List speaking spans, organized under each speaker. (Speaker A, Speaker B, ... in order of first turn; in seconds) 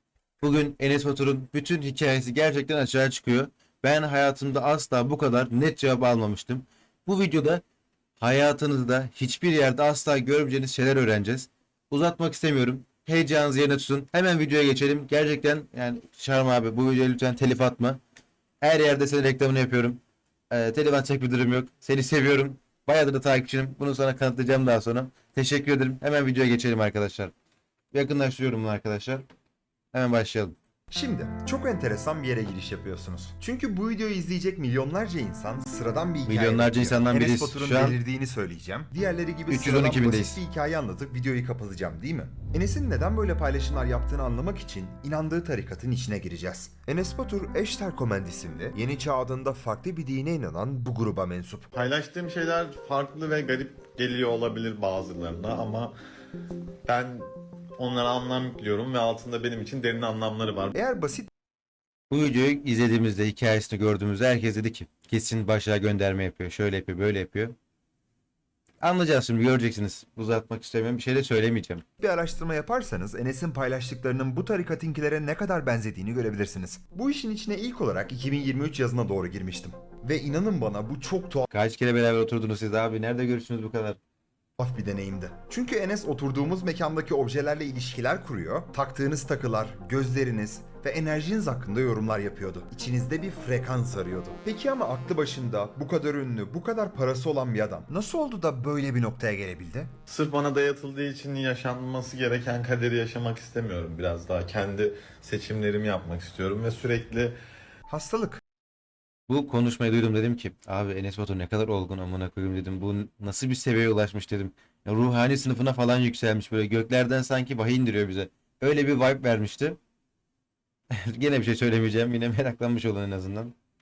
Speaker A: 0.4-7.6, 8.2-18.0, 18.6-20.0, 20.5-27.3, 27.9-29.2, 29.9-30.6, 36.3-38.0, 39.5-40.4, 62.1-67.6, 68.8-71.8, 81.5-84.0, 109.3-119.8, 120.9-123.5
Speaker B: 30.9-51.7, 60.8-61.3, 72.0-81.5, 84.6-99.9, 107.9-108.4
Speaker C: 51.7-55.9, 56.9-60.8, 100.1-107.4